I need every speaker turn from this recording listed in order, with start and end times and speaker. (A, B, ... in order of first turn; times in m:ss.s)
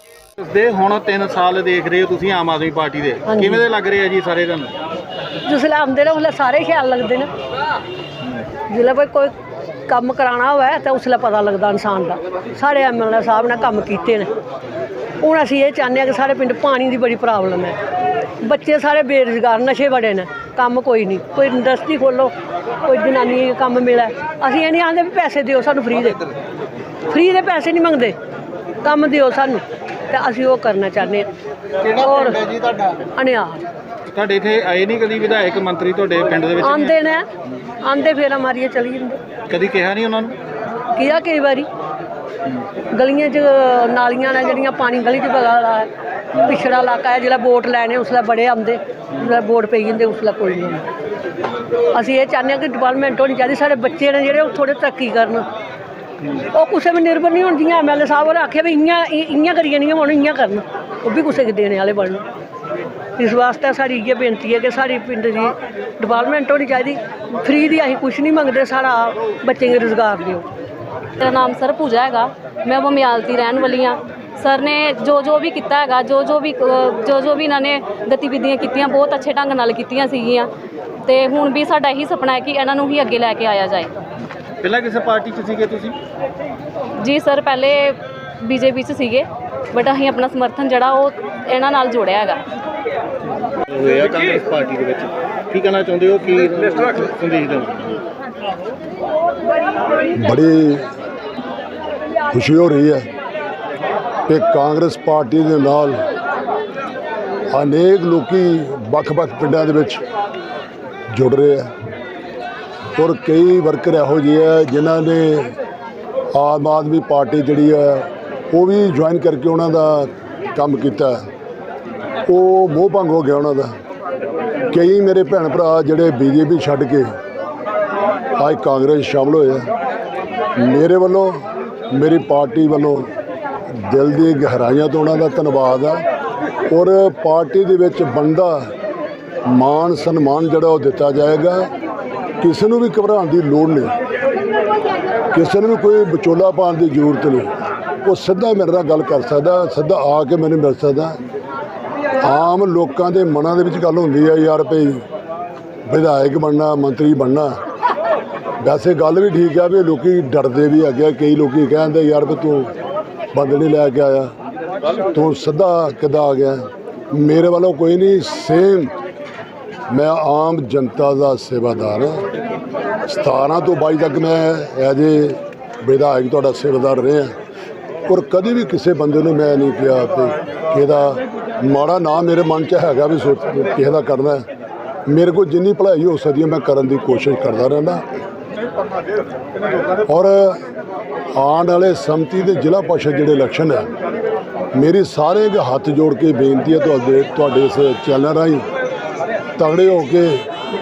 0:00.4-0:04.7 A
0:03.3-0:03.6 B
0:05.4-0:07.3 B
0:08.7-0:09.3 B
0:09.9-0:14.3 B
0:15.2-0:17.8 B
0:18.4-0:22.3 B
0:22.8-0:26.3 B
0:27.1-0:28.2 B
0:28.8-0:31.3 B
0:31.8-0:32.5 B
0:33.1-0:33.6 B
0:34.1-0:36.9 A
0:36.6-0:37.3 B
0:37.8-0:39.2 B
0:39.5-0:40.4 A
0:40.9-0:41.7 B
0:42.9-0:45.9 B
0:46.4-0:50.9 B
0:51.9-0:55.5 B
0:56.5-1:02.3 B
1:03.2-1:10.5 B
1:11.2-1:20.5 C
1:21.0-1:23.9 C
1:24.6-1:26.0 A
1:27.0-1:32.4 C
1:33.7-1:38.0 A
1:40.2-1:40.9 D
1:42.3-1:43.1 D
1:44.3-1:46.0 D
1:47.5-1:50.0 D
1:51.1-1:51.7 D
1:53.0-1:55.6 D
1:56.3-2:01.2 D
2:02.3-2:03.7 D
2:04.7-2:07.1 D
2:08.4-2:09.7 D
2:10.6-2:13.1 D
2:13.8-2:16.0 D
2:16.7-2:18.7 D
2:19.5-2:21.7 D
2:22.4-2:24.0 D
2:25.3-2:27.5 D
2:28.0-2:31.2 D
2:32.2-2:35.0 D
2:35.9-2:37.5 D
2:38.6-2:42.7 D
2:43.3-2:44.3 D
2:45.1-2:48.9 D
2:49.9-2:52.2 D
2:53.1-2:57.3 D
2:58.1-3:04.4 D
3:05.1-3:08.0 D
3:10.1-3:10.6 D
3:11.3-3:13.9 D
3:14.7-3:18.6 D
3:19.6-3:20.4 D